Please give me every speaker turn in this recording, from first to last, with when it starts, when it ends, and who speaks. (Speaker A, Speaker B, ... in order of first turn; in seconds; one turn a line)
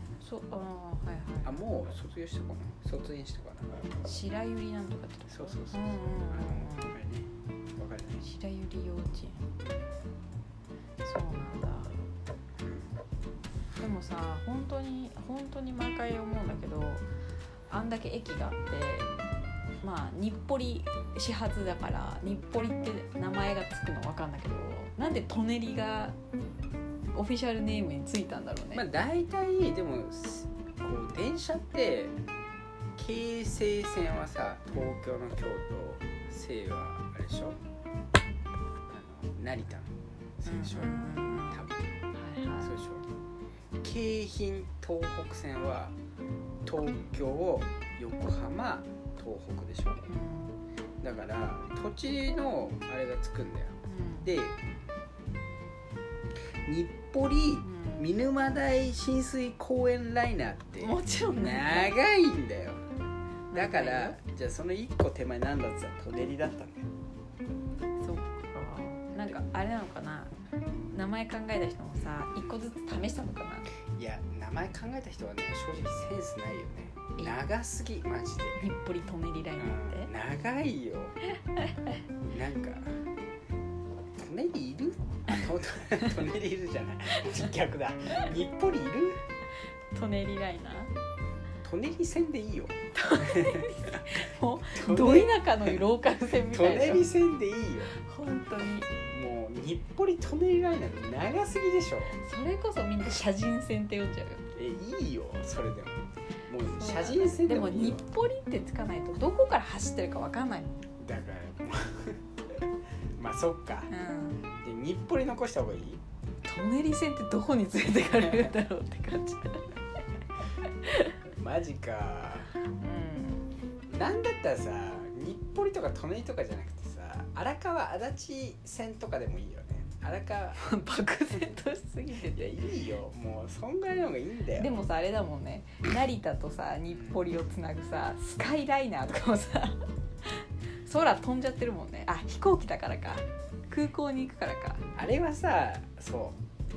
Speaker A: 0.2-1.6
Speaker B: 1.4-3.9
Speaker A: 4.0-6.9
Speaker B: 5.3-8.2
Speaker A: 8.2-9.5
Speaker B: 9.6-9.9
Speaker A: 11.0-12.0
Speaker B: 12.6-12.9
Speaker A: 13.8-17.0
Speaker A: 17.7-19.1
Speaker A: 19.8-26.2
Speaker A: 27.1-28.9
Speaker B: 28.7-32.2
Speaker B: 33.0-37.6
Speaker B: 38.9-41.8
Speaker A: 40.4-42.7
Speaker B: 42.6-43.1
Speaker B: 43.8-46.0
Speaker B: 46.6-50.1
Speaker A: 50.1-50.6
Speaker B: 51.0-54.5
Speaker A: 53.9-54.3
Speaker B: 56.6-62.8
Speaker A: 57.6-58.1
Speaker A: 60.8-62.0
Speaker A: 63.5-64.2
Speaker B: 63.5-66.9
Speaker A: 68.0-70.3
Speaker A: 70.9-73.7
Speaker B: 73.9-78.6
Speaker A: 78.5-80.1
Speaker B: 79.6-81.2
Speaker B: 82.2-83.0
Speaker B: 84.1-89.2
Speaker A: 87.1-87.4
Speaker A: 89.9-90.9
Speaker B: 91.6-94.2
Speaker A: 92.9-97.1
Speaker B: 94.7-95.8
Speaker B: 96.5-97.9
Speaker A: 97.9-98.9
Speaker B: 99.0-102.2
Speaker A: 102.2-104.4
Speaker B: 104.5-108.0
Speaker A: 106.6-110.9
Speaker B: 111.0-112.6
Speaker B: 113.2-113.9
Speaker A: 113.9-114.4
Speaker B: 114.5-116.0
Speaker A: 116.4-119.8
Speaker B: 118.2-118.5
Speaker A: 120.6-121.2
Speaker B: 121.3-122.5
Speaker A: 122.6-123.5
Speaker B: 123.9-130.6
Speaker A: 130.6-132.6
Speaker B: 132.3-134.7
Speaker A: 134.6-144.8
Speaker B: 136.9-137.2
Speaker B: 144.9-146.4